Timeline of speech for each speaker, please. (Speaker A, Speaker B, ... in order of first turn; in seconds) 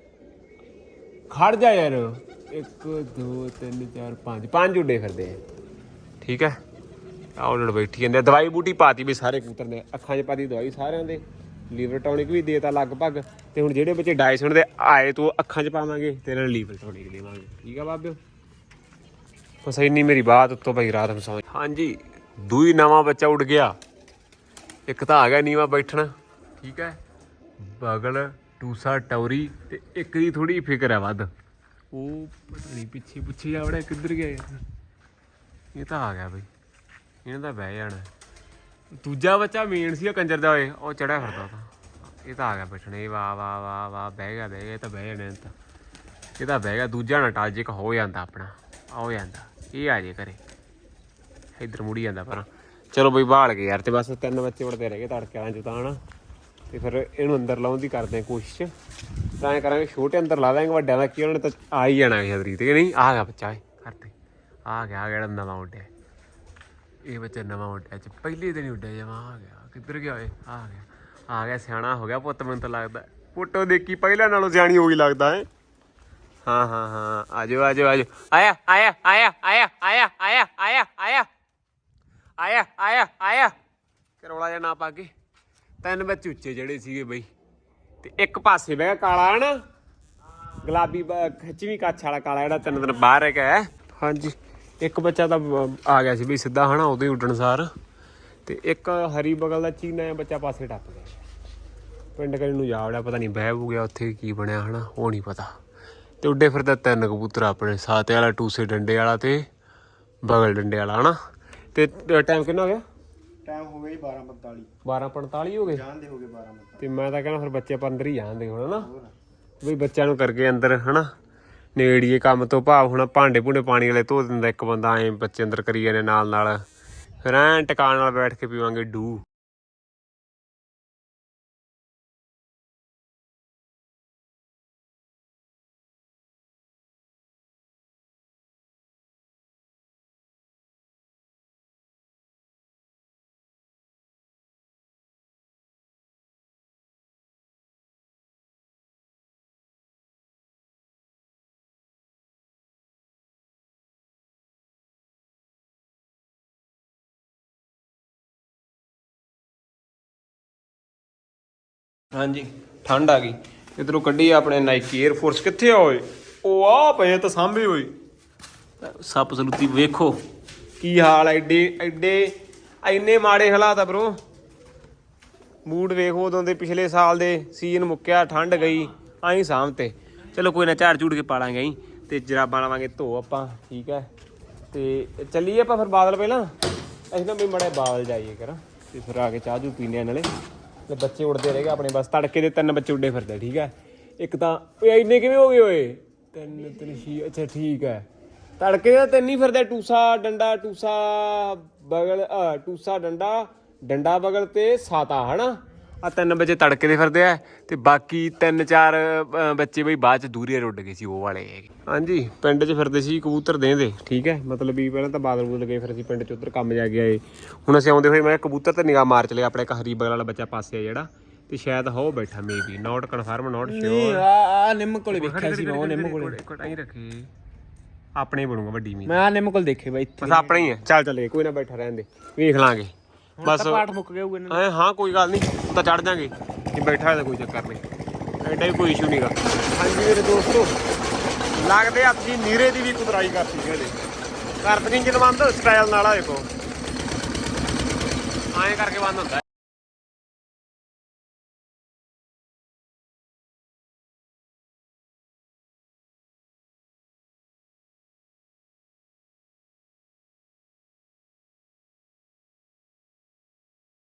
Speaker A: 1.3-5.4, 6.2-6.6, 7.4-18.2, 19.6-23.8, 24.9-27.0, 27.6-31.3, 31.9-34.6, 35.8-36.5, 37.2-38.1, 39.0-45.5, 46.4-50.4, 51.6-56.0, 56.7-58.7, 59.4-64.1, 64.7-65.9, 67.0-75.5, 76.5-81.3, 82.4-83.6, 84.2-85.1, 85.8-87.3, 88.0-89.6, 90.6-97.7, 98.5-101.2, 102.2-105.5, 106.2-109.5, 110.2-111.2, 111.7-112.8, 114.8-115.8, 116.8-118.9, 119.6-121.1, 121.8-126.6, 127.2-129.2, 162.1-167.9, 168.8-170.2, 170.8-174.2, 175.7-184.1, 184.7-186.5, 187.1-190.3, 190.9-198.1, 198.6-224.3, 225.1-227.3, 228.2-229.2, 230.2-232.9, 233.4-233.8, 234.5-237.8, 238.4-240.8, 241.6-244.0, 244.6-246.5, 248.5-249.4
Speaker B: 113.5-114.7, 115.7-116.8, 118.8-119.1, 223.6-226.4, 229.1-230.8, 233.4-234.6